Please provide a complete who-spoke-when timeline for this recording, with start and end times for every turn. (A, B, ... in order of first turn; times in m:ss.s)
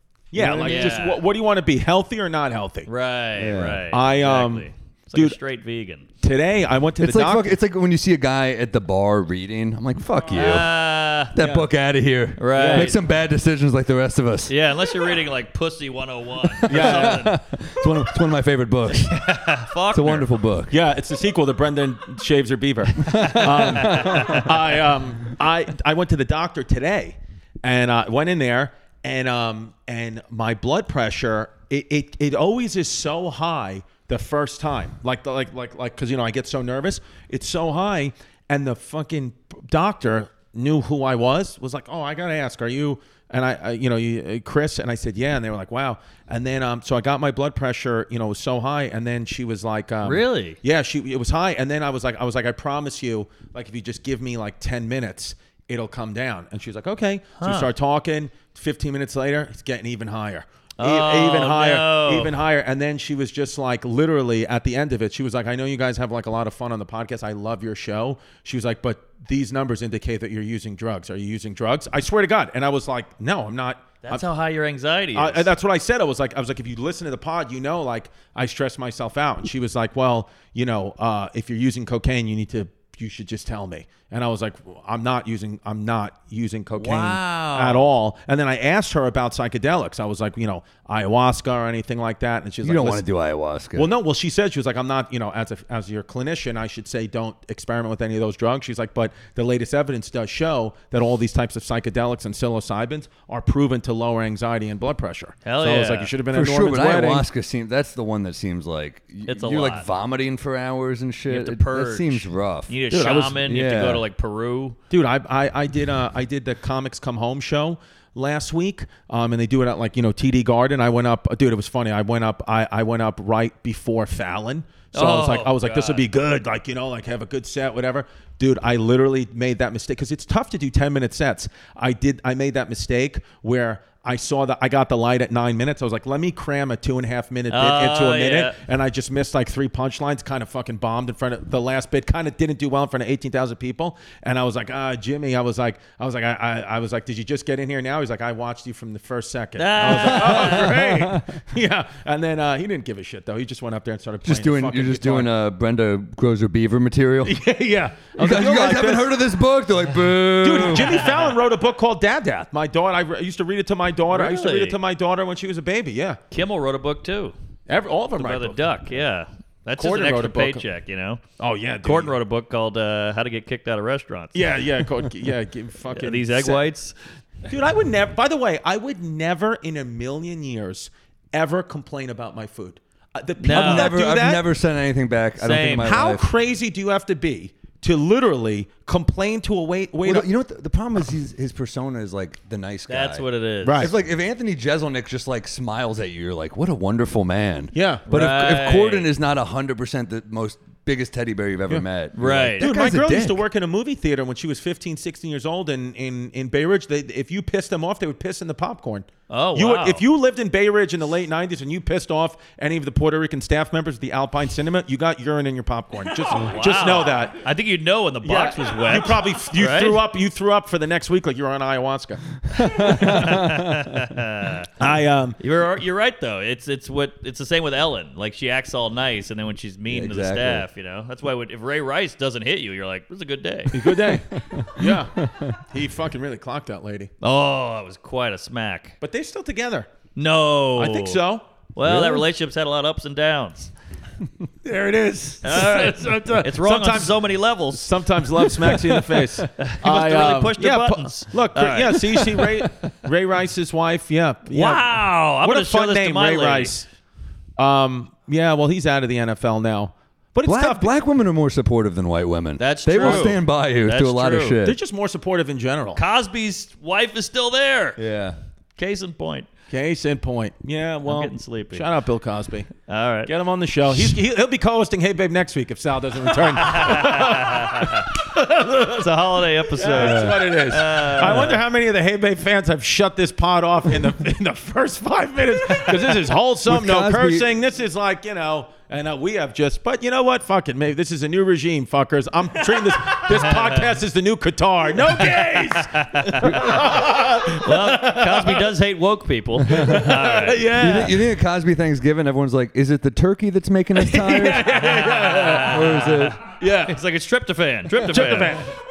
0:00.3-0:02.9 A
0:00.4-0:00.8 B
0:00.6-0:01.2 C
0:02.9-0:06.1 C
0:03.4-0:03.8 B
0:03.9-0:05.4 A
0:06.2-0:07.6 A
0:07.0-0:10.7 B
0:10.3-0:11.3 C
0:11.3-0:14.5 B
0:11.4-0:11.7 A
0:12.4-0:13.0 C
0:12.5-0:13.0 A
0:14.5-0:17.4 C
0:16.5-0:19.4 B
0:16.7-0:17.3 A
0:18.9-0:20.3 C
0:19.9-0:20.8 B
0:20.7-1:14.2 A
0:23.0-0:24.5 C
0:23.1-0:24.5 B
0:50.0-0:50.6 C
0:57.4-0:57.7 C
1:00.8-1:02.3 C
1:14.0-1:15.5 C
1:15.1-1:33.0 A
1:26.8-1:27.9 C
1:32.6-1:33.9 B
1:33.8-1:47.2 A
1:45.4-1:46.1 C
1:46.3-1:54.0 B
1:49.3-1:49.9 C
1:51.3-1:54.8 C
1:52.9-1:53.3 A
1:54.9-2:35.3 A
2:04.9-2:06.0 C
2:17.5-2:18.6 C
2:29.6-2:30.8 C
2:30.1-2:31.3 B
2:34.2-2:37.4 B
2:37.2-2:39.1 A
2:38.2-2:41.0 B
2:40.4-2:46.2 A
2:44.1-2:44.8 C
2:46.3-2:47.4 C
2:47.7-2:48.8 A
2:48.2-2:51.2 C
2:49.8-2:50.6 A
2:51.4-2:52.1 A
2:51.8-2:54.5 C
2:54.3-2:56.6 A
2:55.9-2:57.0 C
2:57.5-3:04.4 A
3:03.4-3:03.9 C
3:03.4-3:06.2 B
3:05.4-3:05.9 C
3:05.8-3:10.3 A
3:10.0-3:13.2 B
3:12.9-3:13.9 C
3:13.6-3:13.9 A
3:13.8-3:23.4 B
3:17.7-3:18.1 A
3:18.1-3:19.1 C
3:22.2-3:22.7 C
3:22.6-3:37.4 A
3:29.3-3:30.0 C
3:36.3-3:40.0 C
3:38.2-3:42.2 A
3:42.6-3:44.9 C
3:42.6-3:44.0 B
3:44.8-3:45.4 A
3:45.4-3:54.1 C
3:49.9-3:50.7 B
3:53.7-3:57.1 A
3:54.5-3:55.6 B
3:57.2-3:59.0 C
3:59.0-3:59.9 A
4:00.2-4:01.2 C
4:00.8-4:01.4 A
4:01.8-4:03.7 C
4:01.8-4:02.3 B
4:04.6-4:16.9 A
4:05.4-4:08.0 C
4:08.5-4:09.3 B
4:09.6-4:12.4 C
4:14.5-4:16.7 C
4:17.6-4:20.9 A
4:20.4-4:24.8 B
4:22.6-4:24.6 C
4:23.0-4:23.3 A
4:24.6-4:26.0 A
4:26.0-4:28.0 C
4:28.0-4:28.4 B
4:28.8-4:29.5 C
4:29.7-4:32.7 A
4:31.1-4:31.9 C
4:32.9-4:33.3 C
4:33.3-4:39.1 A
4:36.5-4:38.1 C
4:38.7-4:41.6 C
4:39.8-4:58.7 A
4:40.0-4:40.6 B
4:46.7-4:47.5 B
4:53.3-4:53.9 C
4:55.4-5:00.6 C
4:59.7-5:00.1 B
4:59.8-5:01.3 A
5:00.8-5:06.4 B
5:04.0-5:05.9 A
5:04.7-5:08.6 C
5:06.5-5:07.0 A
5:08.0-5:08.7 A